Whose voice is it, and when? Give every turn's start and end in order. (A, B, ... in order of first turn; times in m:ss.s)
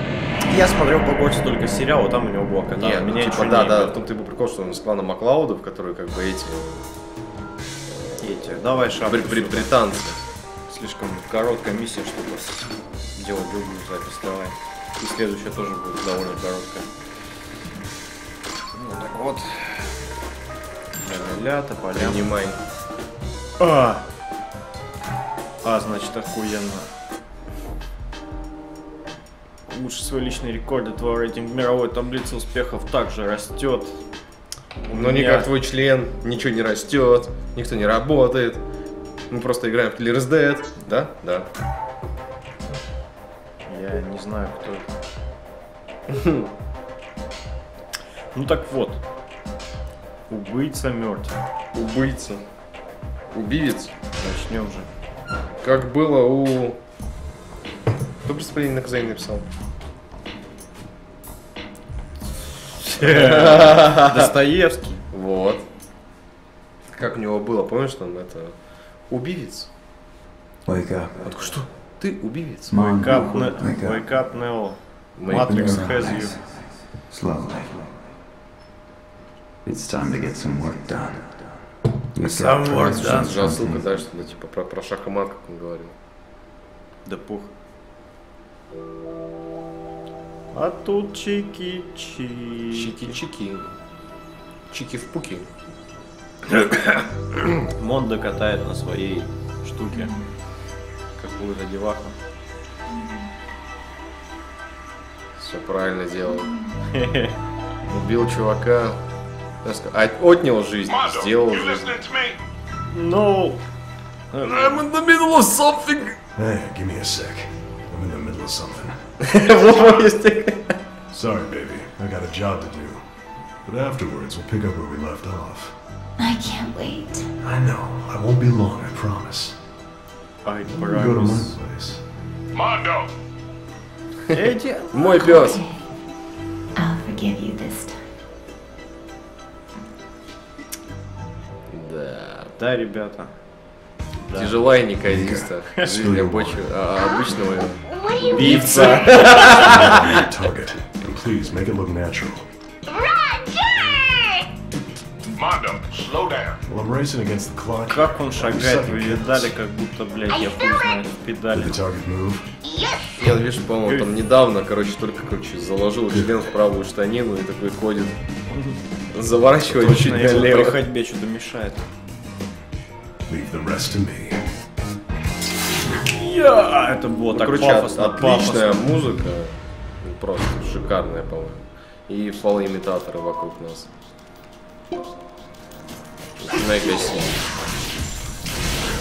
0:00.5-0:04.0 A
0:02.8-0:06.8 B
0:08.2-0:09.7 A
0:09.0-0:10.2 B
0:10.7-0:16.9 A
0:18.7-0:20.0 A
0:21.0-0:22.2 A
0:21.9-0:22.6 B
0:23.6-0:24.0 A
0:25.6-0:26.9 A
0:29.7-0:34.0 A
0:34.8-0:35.5 A
0:34.9-0:38.6 B
0:39.3-0:41.5 B
0:43.7-0:44.9 A
0:46.1-0:46.5 B
0:48.3-0:49.0 A
0:50.3-0:51.4 A
0:51.7-0:52.4 B
0:53.3-0:53.9 B
0:54.2-0:54.9 A
0:55.6-0:56.8 B
0:58.2-0:59.4 B
1:02.8-1:05.0 A
1:03.0-1:04.2 B
1:05.1-1:05.6 B
1:06.9-1:08.5 B
1:09.1-1:09.7 B
1:10.6-1:11.3 C
1:11.2-1:13.2 B
1:12.6-1:14.1 C
1:12.9-1:16.4 A
1:15.2-1:15.9 B
1:15.3-1:16.4 C
1:17.1-1:17.9 C
1:19.6-1:24.0 C
1:22.2-1:23.4 A
1:22.8-1:25.9 B
1:27.0-1:27.5 A
1:30.5-1:33.2 A
1:32.7-1:33.7 B
1:34.7-1:35.5 B
1:37.7-1:40.2 A
1:41.2-1:42.2 A
1:42.9-1:43.2 D
1:45.4-1:46.5 B
1:46.9-1:47.3 A
1:47.9-1:49.0 B
1:49.6-1:52.0 B
1:51.0-1:52.4 E
1:52.9-1:53.6 A
1:54.3-1:54.8 A
1:54.4-1:56.2 B
1:56.3-1:59.0 F
1:59.2-2:00.7 B
2:01.1-2:03.1 F
2:03.6-2:05.8 F
2:06.2-2:07.3 D
2:07.4-2:09.6 F
2:10.4-2:11.6 A
2:10.7-2:12.0 F
2:12.5-2:13.1 E
2:14.3-2:15.0 A
2:14.9-2:15.6 B
2:15.2-2:15.8 D
2:16.8-2:18.0 D
2:21.7-2:22.5 B
2:22.6-2:23.3 A
2:24.2-2:24.6 A
2:24.3-2:29.9 B
2:25.0-2:26.7 F
2:28.2-2:30.0 A
2:29.4-2:32.5 F
2:32.9-2:34.5 D
2:35.4-2:36.6 E
2:36.6-2:39.5 F
2:37.9-2:41.8 A
2:41.5-2:42.5 F
2:43.2-2:48.2 B
2:43.8-2:44.1 A
2:48.5-2:48.8 A
2:49.1-2:50.8 B
2:49.7-2:51.9 A
2:53.3-2:54.5 F
2:55.8-2:58.9 A
2:57.3-3:03.9 B
3:06.4-3:07.4 B